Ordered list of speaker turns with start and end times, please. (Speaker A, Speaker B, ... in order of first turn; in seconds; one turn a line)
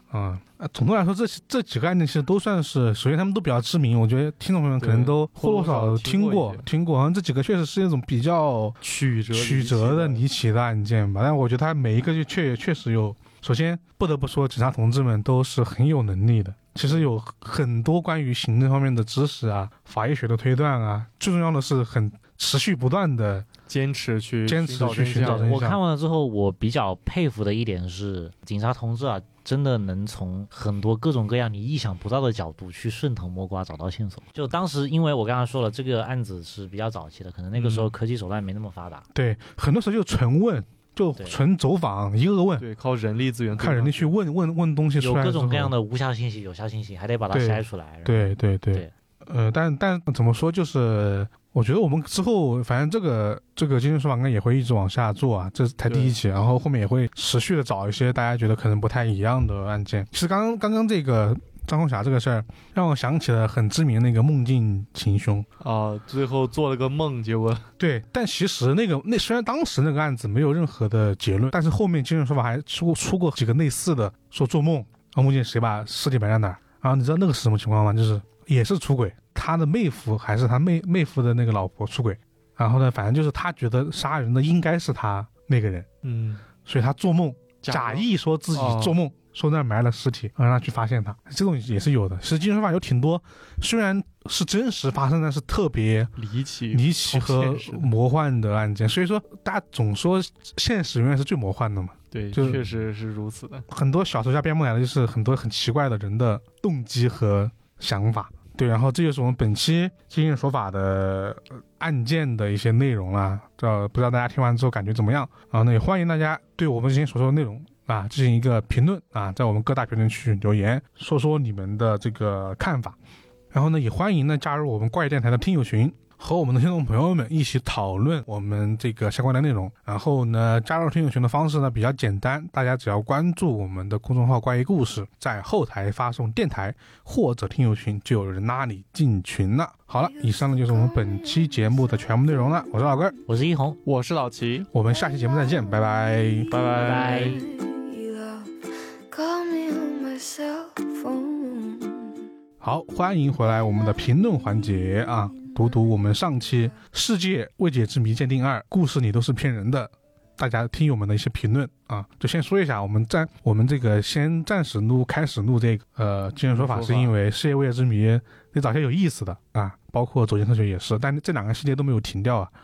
Speaker A: 0.1-8.8
Speaker B: 4.8-6.7
Speaker B: 8.8-10.2
Speaker A: 9.3-23.5
Speaker B: 23.7-25.5
Speaker A: 24.5-25.8
Speaker C: 25.2-39.0
Speaker B: 37.5-37.9
Speaker A: 39.1-42.6
Speaker B: 42.6-44.1
Speaker A: 43.6-45.7
Speaker C: 45.0-48.9
Speaker A: 47.3-65.5
Speaker B: 55.9-56.2
Speaker B: 65.6-67.7
Speaker A: 67.8-85.9
Speaker B: 86.0-86.4
Speaker A: 86.7-96.1
Speaker B: 87.6-89.0
Speaker B: 96.2-97.9
Speaker A: 96.7-102.6
Speaker B: 102.1-103.7
Speaker A: 103.7-123.0
Speaker A: 123.5-143.2
Speaker D: 140.0-143.2
Speaker C: 143.3-143.8
Speaker B: 143.8-144.7
Speaker A: 144.7-146.5
Speaker D: 144.9-148.5
Speaker B: 146.5-147.4
Speaker C: 146.8-147.4
Speaker D: 149.1-152.2
Speaker A: 152.6-172.5
Speaker D: 153.5-156.8
Speaker B: 166.5-167.1